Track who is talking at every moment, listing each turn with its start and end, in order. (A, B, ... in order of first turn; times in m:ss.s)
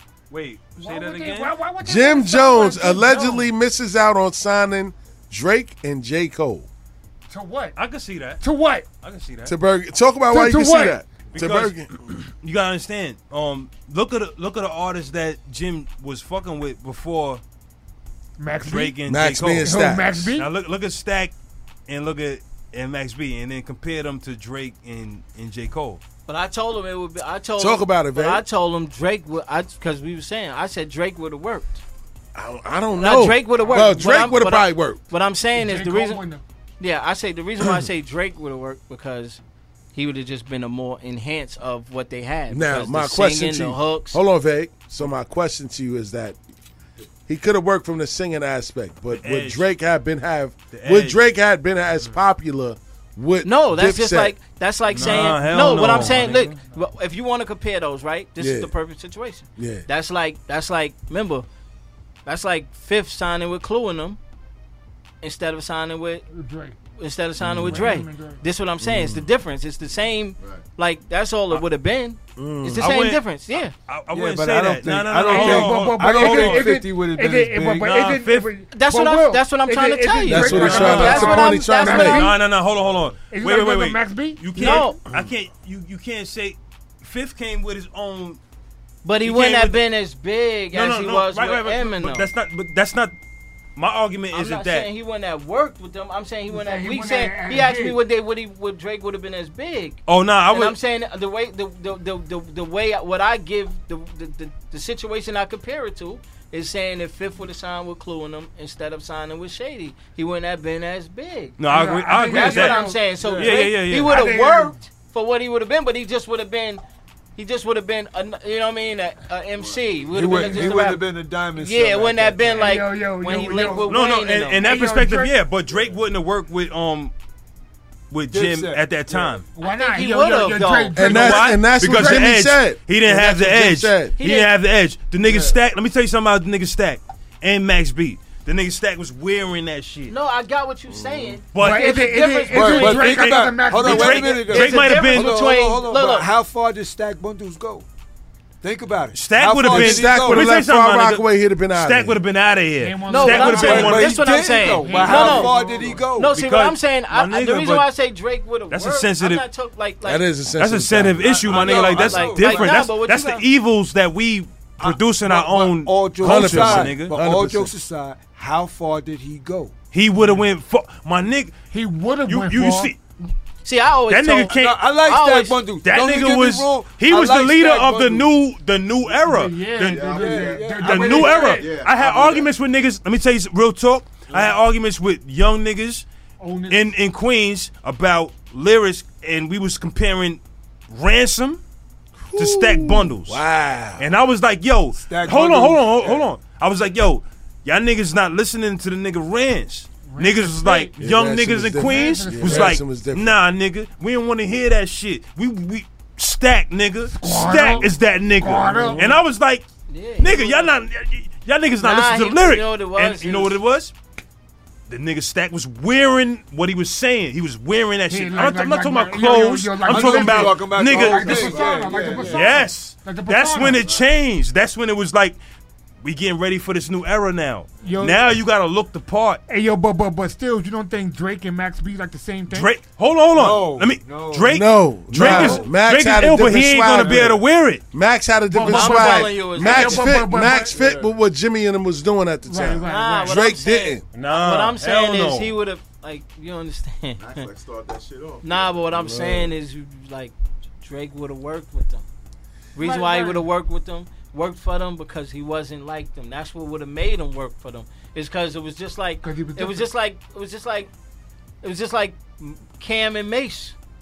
0:00.3-0:01.5 A
0:00.8-0:03.5 B
0:01.8-0:06.7 C
0:07.3-0:07.8 B
0:07.8-0:08.4 A
0:08.4-0:08.9 B
0:09.0-0:09.5 A
0:09.4-0:11.9 C
0:10.3-0:11.0 B
0:11.3-0:11.8 A
0:12.4-0:17.4 A
0:18.4-0:19.0 B
0:18.6-0:19.7 A
0:19.0-0:20.3 C
0:19.6-0:20.4 B
0:20.4-0:21.3 A
0:21.9-0:26.0 A
0:26.3-0:31.8 D
0:27.6-0:28.4 C
0:32.3-0:35.0 C
0:33.0-0:36.2 D
0:33.6-0:34.0 B
0:35.5-0:36.4 B
0:36.8-0:39.4 D
0:39.9-0:44.2 D
0:42.5-0:46.4 C
0:47.3-0:54.4 C
0:49.1-0:49.7 A
0:50.7-0:51.2 A
0:53.4-1:01.4 D
0:54.9-0:56.5 A
0:55.0-0:55.4 C
0:55.6-0:56.7 B
0:58.4-0:58.7 C
0:59.6-0:59.8 C
1:02.2-1:04.2 D
1:05.2-1:06.3 D
1:06.3-1:06.8 B
1:07.0-1:13.7 D
1:07.4-1:07.8 C
1:07.6-1:08.4 B
1:08.8-1:09.3 C
1:12.4-1:12.9 C
1:12.8-1:13.2 A
1:13.9-1:16.7 A
1:14.1-1:18.2 E
1:15.3-1:22.4 B
1:17.8-1:18.5 A
1:18.7-1:22.2 D
1:20.3-1:22.3 C
1:22.1-1:28.4 A
1:23.3-1:25.0 B
1:24.6-1:25.0 D
1:25.0-1:25.3 C
1:29.0-1:32.3 D
1:29.2-1:29.8 A
1:30.7-1:33.1 A
1:33.8-1:34.9 A
1:34.3-1:51.6 D
1:36.5-1:38.0 B
1:40.1-1:40.8 A
1:51.6-1:54.1 A
1:51.7-1:53.1 B
1:52.1-1:56.8 D
1:53.2-1:53.6 E
1:54.0-1:54.8 B
1:57.4-2:01.0 D
1:59.6-2:00.7 F
2:00.1-2:02.7 E
2:01.6-2:04.7 D
2:02.5-2:03.9 B
2:03.8-2:07.1 A
2:04.6-2:05.3 B
2:05.6-2:06.0 F
2:08.1-2:09.4 A
2:08.3-2:09.4 E
2:09.5-2:12.2 B
2:09.6-2:11.3 D
2:11.0-2:14.2 C
2:11.1-2:20.1 A
2:14.2-2:14.5 D
2:15.2-2:15.6 E
2:20.1-2:26.3 D
2:21.5-2:21.9 A
2:21.6-2:24.3 B
2:22.5-2:27.8 E
2:23.1-2:25.4 A
2:28.6-2:30.6 E
2:29.1-2:34.2 A
2:29.6-2:32.2 C
2:32.8-2:34.0 B
2:33.1-2:35.5 D
2:33.4-2:36.7 E
2:34.8-2:35.6 B
2:35.7-2:36.0 F
2:36.2-2:40.2 D
2:36.3-2:37.9 A
2:38.7-2:39.4 A
2:40.0-2:41.4 C
2:40.6-2:47.2 A
2:41.2-2:42.9 E
2:41.5-2:43.4 D
2:44.8-2:49.7 E
2:46.1-2:47.7 C
2:49.9-2:51.6 A
2:50.2-2:50.4 B
2:51.7-2:52.9 B
2:52.2-2:53.0 A
2:53.6-2:55.6 D
2:54.1-2:54.8 A
2:54.5-2:58.3 E
2:55.8-3:00.1 A
2:59.1-3:01.7 B
2:59.8-3:02.5 F
3:00.0-3:02.3 E
3:00.8-3:06.0 A
3:04.3-3:04.6 E
3:06.4-3:06.9 B
3:06.7-3:11.6 A
3:12.3-3:14.1 C
3:12.4-3:13.4 A
3:14.0-3:29.6 A
3:14.9-3:16.2 E
3:20.0-3:21.0 B
3:21.0-3:23.4 C
3:21.7-3:22.7 B
3:27.1-3:29.2 B
3:29.9-3:30.7 D
3:30.2-3:33.9 A
3:31.8-3:33.6 D
3:34.9-3:41.7 A
3:38.1-3:43.9 B
3:39.9-3:42.6 E
3:41.9-3:42.4 F
3:42.2-3:45.4 A
3:46.0-3:49.4 A
3:47.8-3:48.3 B
3:49.5-3:52.7 B
3:52.5-3:57.8 A
3:53.3-3:55.8 E
3:54.5-4:04.0 C
3:56.4-3:57.4 E
3:58.5-4:00.7 B
3:58.6-4:00.1 D
4:00.4-4:01.1 E
4:02.4-4:03.4 B
4:02.8-4:07.5 D
4:04.1-4:05.5 A
4:07.2-4:09.4 F
4:08.4-4:12.0 D
4:09.0-4:09.4 C
4:12.7-4:20.9 D
4:12.8-4:13.4 B
4:19.2-4:19.9 B
4:21.6-4:23.7 D